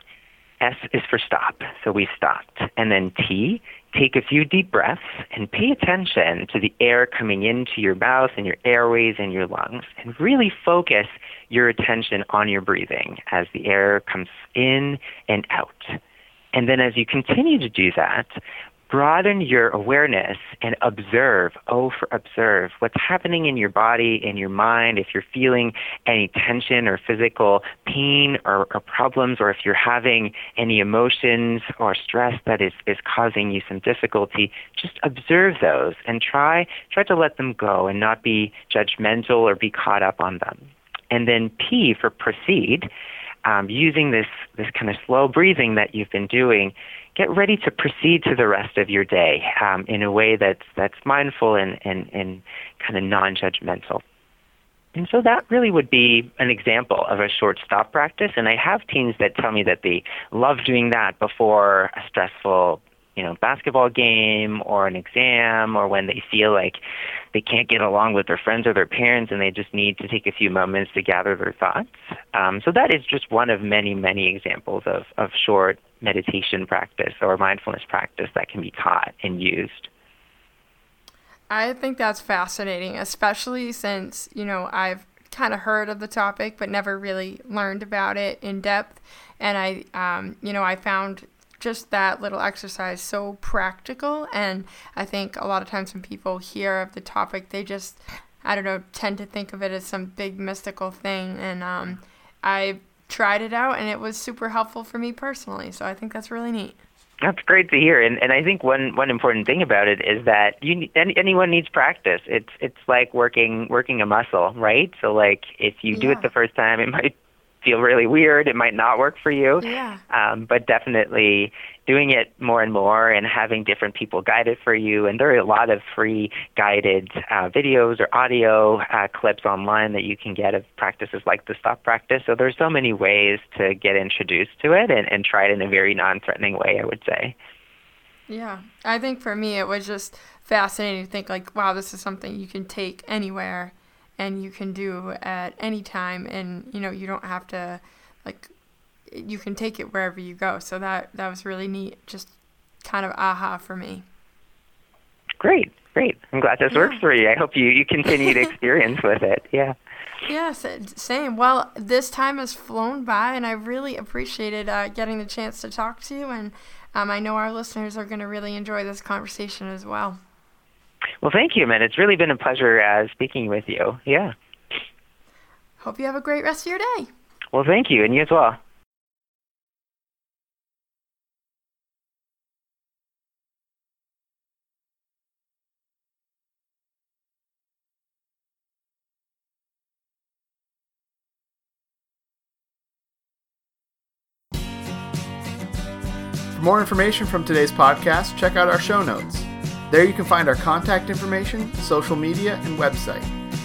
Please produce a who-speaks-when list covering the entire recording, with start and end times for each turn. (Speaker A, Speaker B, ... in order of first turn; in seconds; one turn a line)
Speaker A: 0.6-16.0
Speaker A: 16.5-18.3
Speaker A: 18.9-42.9
Speaker A: 43.4-54.0
Speaker A: 54.9-66.8
Speaker A: 67.3-79.9
Speaker B: 81.5-106.8
Speaker A: 107.2-137.3
Speaker B: 115.9-116.3
Speaker B: 119.6-120.0
Speaker B: 138.3-148.5
Speaker B: 149.1-154.0
Speaker A: 155.4-159.7
Speaker B: 156.7-157.0
Speaker B: 158.1-158.5
Speaker B: 160.3-170.2
Speaker A: 171.2-174.3
Speaker B: 175.8-177.1
Speaker A: 177.5-178.6
Speaker C: 196.5-203.3